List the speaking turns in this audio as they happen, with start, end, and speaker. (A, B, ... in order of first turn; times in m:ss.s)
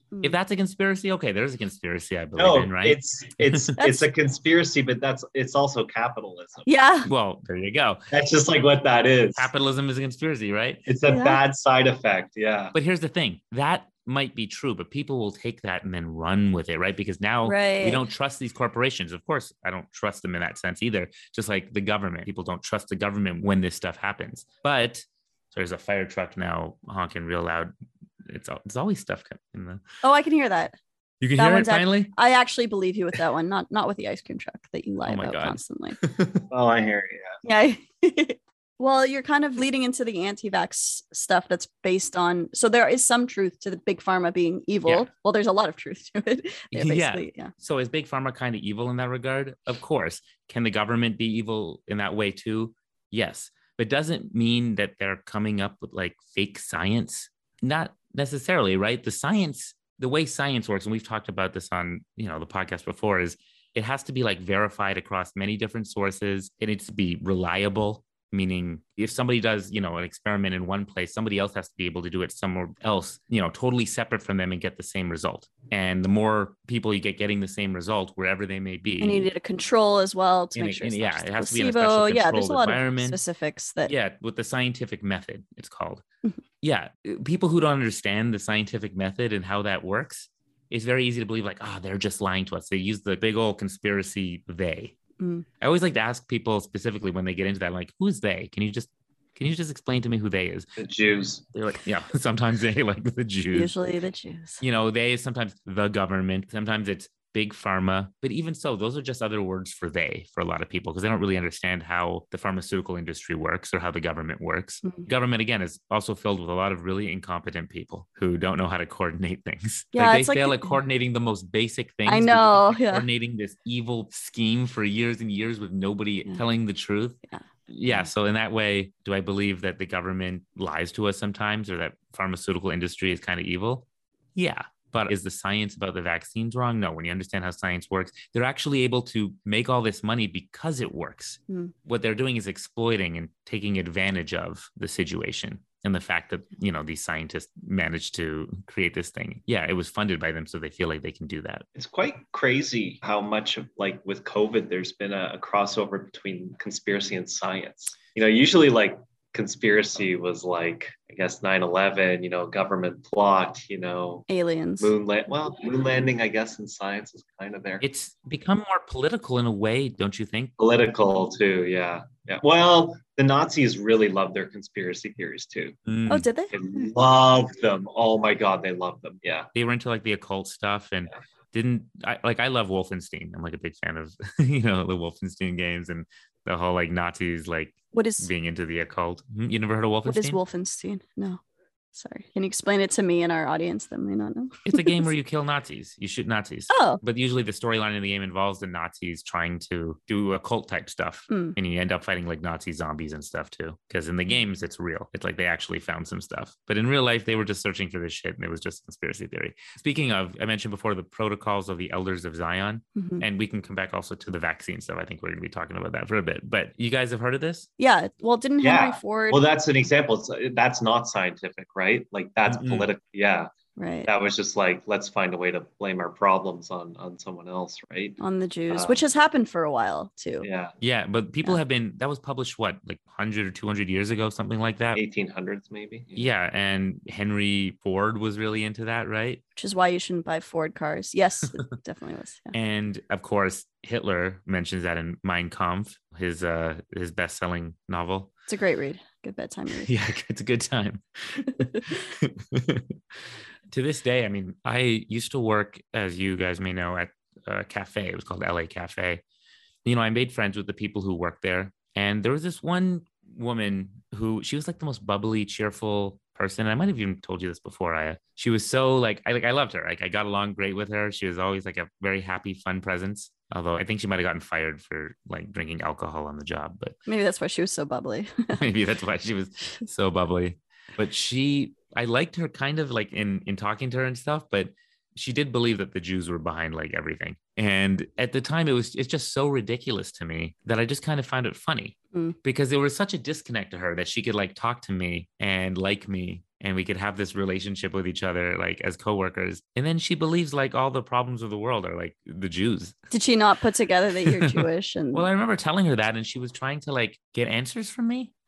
0:00.2-0:03.8 A
0:02.4-0:06.7 B
0:03.8-0:04.0 C
0:06.7-0:07.1 C
0:07.1-0:08.0 A
0:08.1-0:09.5 B
0:09.4-0:10.8 A
0:10.9-0:12.7 B
0:11.1-0:11.4 C
0:12.7-0:27.7 A
0:17.4-0:18.1 C
0:28.3-0:29.8 A
0:30.0-0:30.8 C
0:31.2-0:32.1 A
0:31.4-0:36.0 C
0:35.0-0:36.5 A
0:36.5-0:37.4 B
0:37.4-0:47.5 C
0:46.7-1:19.3 A
1:19.0-1:23.9 C
1:20.6-1:23.2 A
1:23.9-1:26.0 A
1:26.6-1:35.0 A
1:35.2-1:35.5 C
1:35.6-1:40.7 A
1:40.8-1:41.5 B
1:41.6-1:43.7 A
1:43.5-1:44.6 C
1:44.6-2:07.2 A
1:59.9-2:00.8 C
2:02.1-2:03.1 C
2:07.3-2:08.1 C
2:07.7-2:31.6 A
2:31.8-2:44.3 B
2:44.3-2:44.9 C
2:44.8-2:47.8 B
2:47.8-2:50.5 A
2:50.6-2:55.8 B
2:55.9-2:56.3 A
2:56.1-2:56.6 C
2:56.5-2:59.5 B
2:59.5-3:10.4 A
3:07.9-3:08.3 C
3:10.1-3:11.4 C
3:11.9-3:15.1 C
3:14.7-3:37.7 A
3:16.7-3:17.0 C
3:21.3-3:21.6 C
3:33.0-3:33.2 C
3:37.8-3:39.4 C
3:38.6-3:43.5 B
3:42.5-3:42.9 A
3:43.8-3:44.1 C
3:44.1-3:48.2 B
3:48.2-3:50.5 C
3:48.7-3:49.0 B
3:50.4-3:50.8 B
3:50.8-3:55.0 A
3:55.0-3:56.3 B
3:56.2-3:59.4 A
3:59.6-4:02.5 C
4:02.5-4:08.3 A
4:08.5-4:09.9 C
4:09.8-4:12.9 A
4:11.6-4:12.0 C
4:13.7-4:19.2 A
4:19.8-4:37.0 A
4:37.1-4:38.6 C
4:38.6-5:03.0 A
5:03.1-5:05.3 C
5:04.3-5:08.3 A